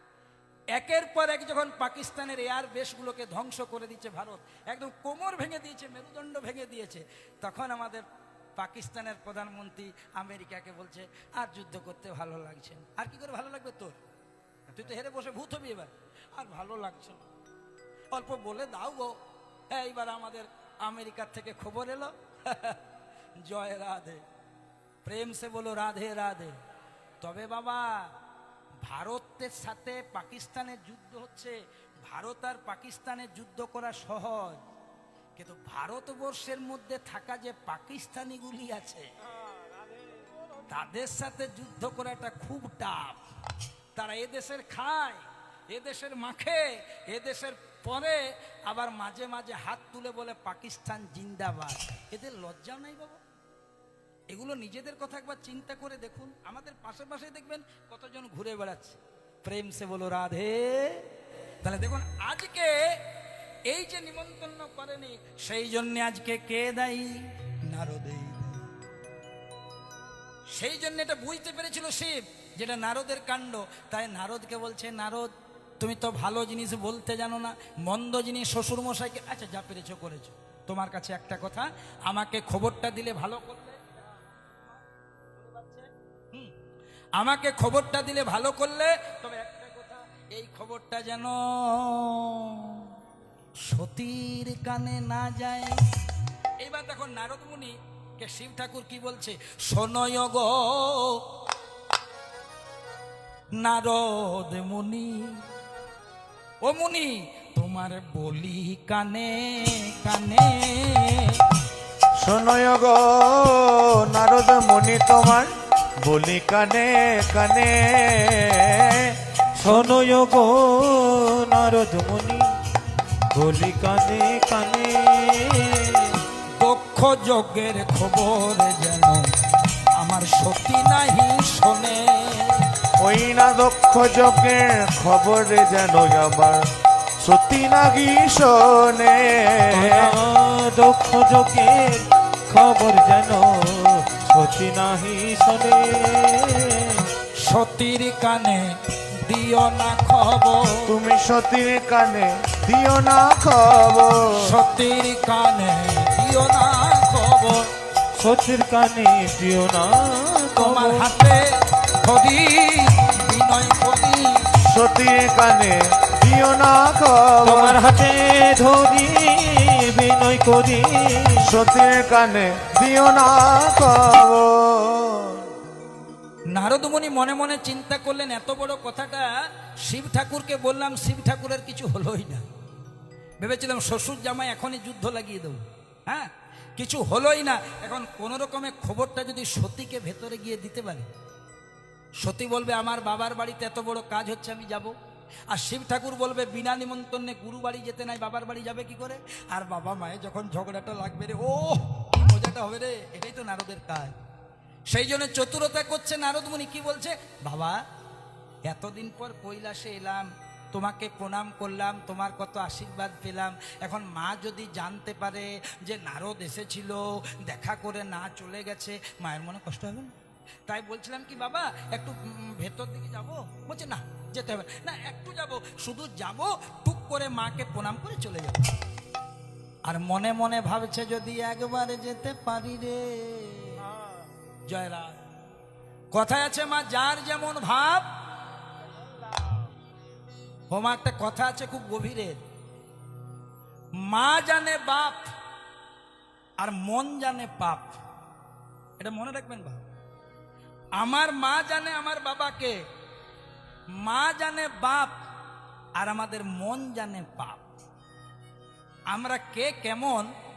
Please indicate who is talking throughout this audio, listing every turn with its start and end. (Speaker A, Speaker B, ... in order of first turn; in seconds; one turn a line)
Speaker A: 0.7-14.0
Speaker A: 14.7-17.2
Speaker A: 18.1-19.2
Speaker A: 19.7-22.8
Speaker A: 23.4-24.2
Speaker A: 25.0-26.6
Speaker A: 27.2-28.1
Speaker A: 28.8-34.6
Speaker A: 35.4-39.1
Speaker A: 40.7-43.2
Speaker A: 44.0-53.2
Speaker A: 54.3-61.1
Speaker A: 61.6-63.0
Speaker A: 63.7-68.7
Speaker A: 70.5-84.2
Speaker A: 85.4-86.5
Speaker A: 87.2-93.0
Speaker A: 93.6-95.8
Speaker A: 96.6-101.2
Speaker A: 103.6-105.4
Speaker A: 106.6-111.4
Speaker B: 112.2-119.2
Speaker C: 119.5-122.5
Speaker C: 123.3-126.2
Speaker A: 126.6-129.3
Speaker A: 129.9-132.7
Speaker B: 133.0-136.7
Speaker B: 137.2-140.2
Speaker C: 139.7-147.1
Speaker A: 147.4-150.9
Speaker B: 150.8-154.5
Speaker A: 154.3-157.7
Speaker C: 158.1-161.1
Speaker A: 160.6-164.6
Speaker B: 164.6-167.8
Speaker C: 167.4-171.5
Speaker B: 171.4-175.5
Speaker A: 176.5-182.4
Speaker A: 183.4-191.1
Speaker A: 192.2-194.9
Speaker A: 195.5-204.1
Speaker A: 204.9-207.8
Speaker A: 208.7-220.1
Speaker A: 220.7-228.7
Speaker A: 229.8-233.8
Speaker A: 234.7-235.2
Speaker A: 236.1-238.1
Speaker A: 240.7-242.4
Speaker A: 243.9-245.3
Speaker A: 246.6-248.0
Speaker A: 249.0-249.8
Speaker A: 250.9-252.8
Speaker A: 253.9-255.2
Speaker A: 255.9-257.7
Speaker A: 259.1-260.3